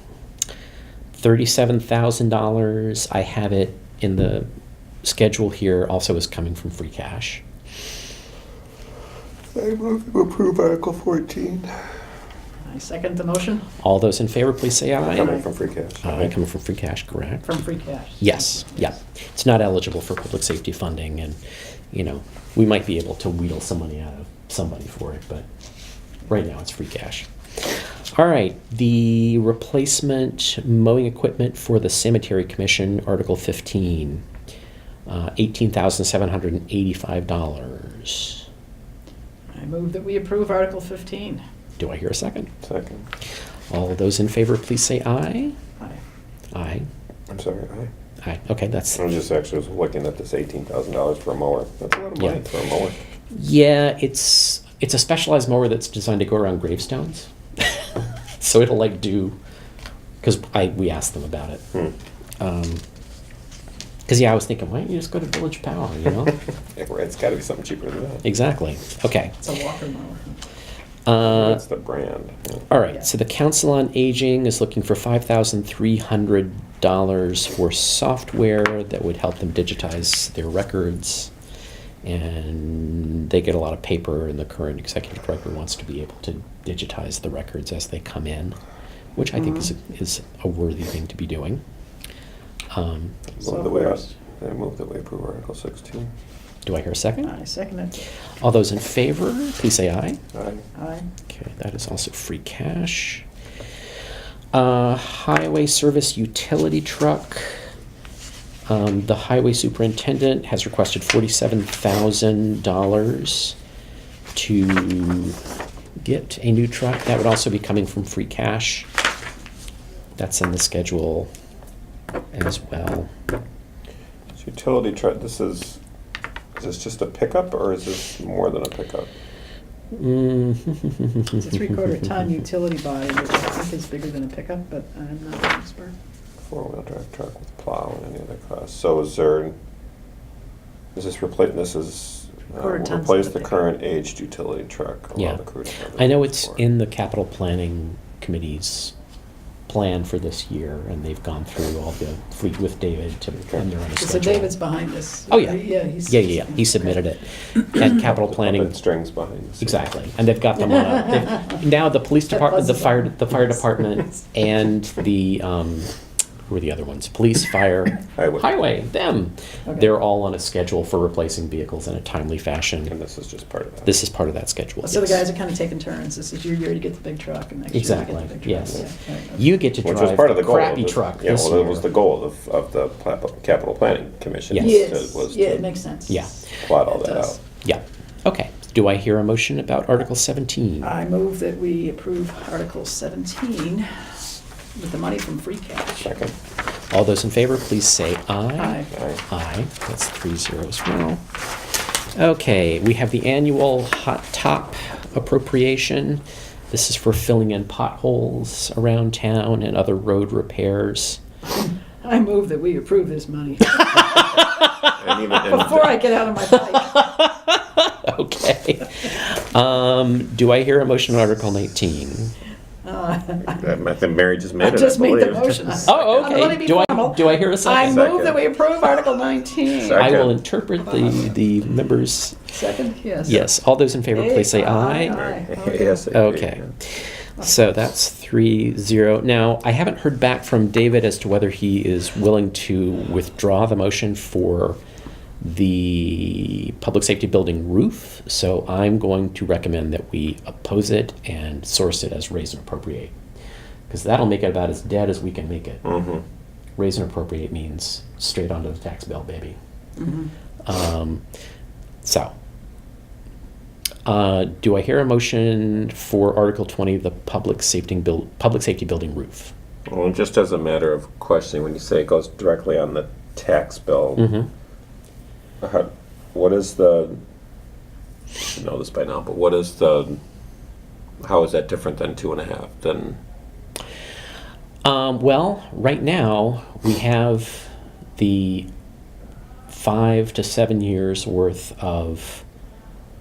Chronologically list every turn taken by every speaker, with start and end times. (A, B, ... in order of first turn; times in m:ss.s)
0:01.2-0:04.5 A
0:05.0-0:07.4 A
0:09.5-0:11.9 B
0:12.7-0:13.7 C
0:13.8-0:15.4 A
0:15.0-0:16.3 B
0:16.0-0:17.5 A
0:17.4-0:19.0 C
0:18.2-0:21.4 A
0:21.9-0:25.5 A
0:26.3-0:34.2 A
0:35.1-0:38.4 A
0:39.5-0:41.4 C
0:41.8-0:42.5 A
0:42.6-0:43.1 B
0:43.7-0:45.6 A
0:46.5-0:46.9 A
0:47.3-0:47.9 B
0:48.2-0:49.0 A
0:49.0-0:53.0 B
0:52.2-0:52.4 A
0:53.3-0:59.4 A
1:00.2-1:01.6 A
1:02.4-1:02.8 A
1:04.1-1:06.4 A
1:06.7-1:08.2 B
1:08.2-1:09.4 A
1:09.4-1:10.4 C
1:11.1-1:11.6 A
1:11.2-1:12.7 B
1:12.7-1:21.3 A
1:22.0-1:28.6 A
1:29.2-1:31.6 A
1:29.4-1:29.7 C
1:32.7-1:33.3 A
1:33.4-1:36.1 B
1:33.4-1:34.1 C
1:36.7-1:37.4 A
1:37.2-1:38.0 C
1:38.4-1:40.2 A
1:40.3-1:40.6 B
1:40.8-1:41.1 C
1:41.3-1:43.3 A
1:44.5-1:47.6 A
1:48.7-1:53.6 A
1:54.3-1:55.4 A
1:56.0-1:58.9 A
2:00.2-2:01.3 A
2:02.3-2:03.1 A
2:04.4-2:05.8 B
2:06.6-2:09.1 B
2:09.9-2:11.5 A
2:11.4-2:16.0 C
2:16.4-2:19.6 B
2:21.0-2:26.6 B
2:22.5-2:23.6 C
2:25.9-2:28.9 A
2:29.7-2:34.6 A
2:34.0-2:36.9 C
2:35.3-2:38.8 A
2:37.9-2:39.9 B
2:39.6-2:45.9 A
2:42.3-2:43.4 C
2:46.5-2:53.0 A
2:48.2-2:48.5 B
2:52.9-2:54.0 B
2:53.9-2:55.2 A
2:54.8-2:59.5 C
2:57.7-3:01.9 A
2:59.8-3:05.7 B
3:04.5-3:04.8 A
3:04.6-3:06.3 C
3:06.1-3:06.4 A
3:06.6-3:07.4 B
3:06.9-3:07.4 C
3:07.6-3:10.9 A
3:10.8-3:14.0 C
3:14.8-3:16.1 C
3:16.0-3:16.3 B
3:16.9-3:21.2 A
3:18.6-3:18.9 C
3:18.9-3:19.2 B
3:22.1-3:31.2 A
3:31.6-3:34.6 C
3:33.8-3:35.0 A
3:34.9-3:36.1 B
3:35.2-3:37.0 C
3:36.4-3:42.3 A
3:42.8-3:43.7 C
3:43.4-3:46.4 B
3:44.6-3:50.2 C
3:45.9-3:48.1 A
3:47.8-3:48.4 B
3:49.7-3:50.4 B
3:50.0-3:52.5 A
3:52.5-3:53.5 C
3:53.2-3:55.2 A
3:54.1-3:56.1 C
3:55.0-3:56.7 B
3:56.1-4:04.8 A
4:05.4-4:13.2 A
4:13.9-4:16.0 A
4:15.8-4:16.2 B
4:16.8-4:19.6 A
4:20.0-4:20.3 C
4:20.7-4:21.2 A
4:22.0-4:22.4 A
4:24.1-4:29.5 A
4:29.9-4:34.3 B
4:34.2-4:34.5 A
4:35.6-4:37.2 B
4:38.4-4:40.2 B
4:41.2-4:43.2 B
4:44.8-4:48.7 A
4:49.7-4:52.4 A